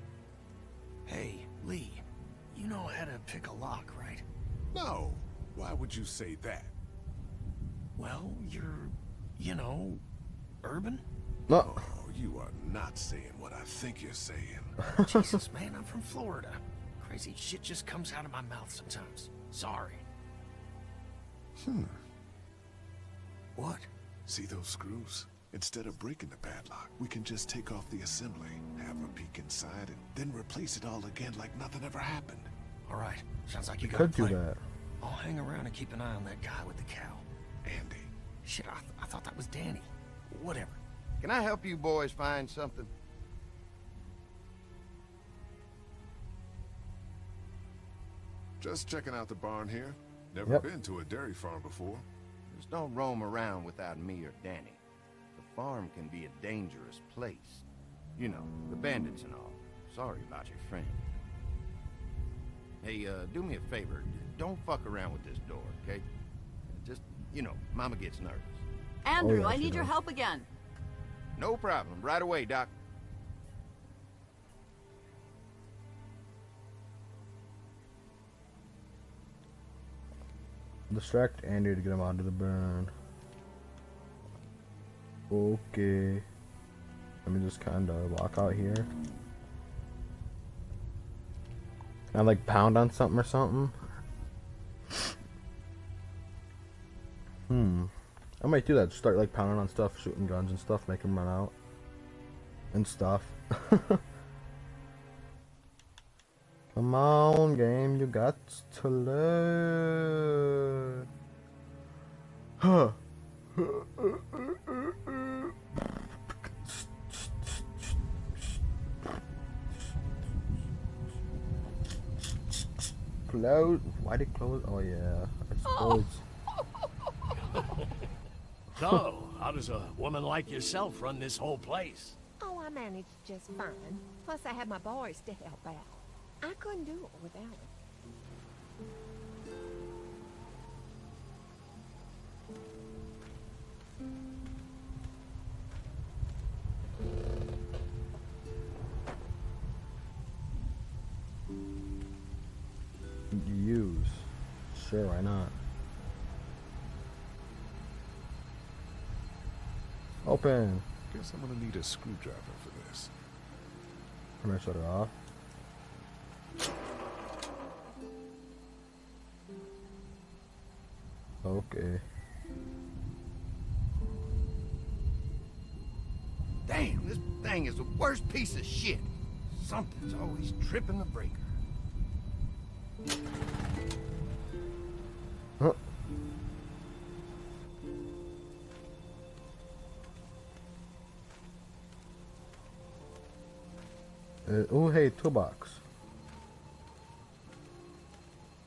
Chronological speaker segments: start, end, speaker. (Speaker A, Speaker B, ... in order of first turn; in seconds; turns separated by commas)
Speaker A: 1.1-4.2, Speaker B: 4.7-6.7, Speaker A: 8.0-10.0, Speaker A: 10.6-11.0, Speaker C: 11.5-11.9, Speaker B: 11.6-14.8, Speaker C: 14.9-15.4, Speaker A: 15.0-20.0, Speaker B: 21.6-22.0, Speaker A: 23.5-23.9, Speaker B: 24.2-32.5, Speaker A: 32.9-34.4, Speaker C: 33.8-34.6, Speaker A: 35.0-37.2, Speaker B: 37.6-38.1, Speaker A: 38.4-40.8, Speaker D: 41.2-42.9, Speaker B: 48.6-52.0, Speaker D: 52.5-54.8, Speaker D: 55.4-57.6, Speaker D: 58.1-61.0, Speaker D: 62.8-66.0, Speaker D: 66.7-68.7, Speaker E: 69.0-70.5, Speaker C: 69.2-69.9, Speaker D: 71.3-72.7, Speaker C: 80.9-82.9, Speaker C: 85.3-86.2, Speaker C: 87.2-88.9, Speaker C: 92.1-93.7, Speaker C: 97.5-101.5, Speaker C: 102.7-104.0, Speaker C: 106.7-111.1, Speaker C: 112.6-113.0, Speaker C: 113.5-115.5, Speaker C: 116.5-118.6, Speaker C: 122.5-126.2, Speaker E: 125.6-126.1, Speaker F: 128.7-132.2, Speaker G: 132.4-137.7, Speaker C: 153.3-155.5, Speaker C: 160.2-160.8, Speaker B: 161.1-163.1, Speaker C: 164.4-165.1, Speaker C: 171.4-172.0, Speaker D: 176.7-181.4, Speaker C: 194.4-195.8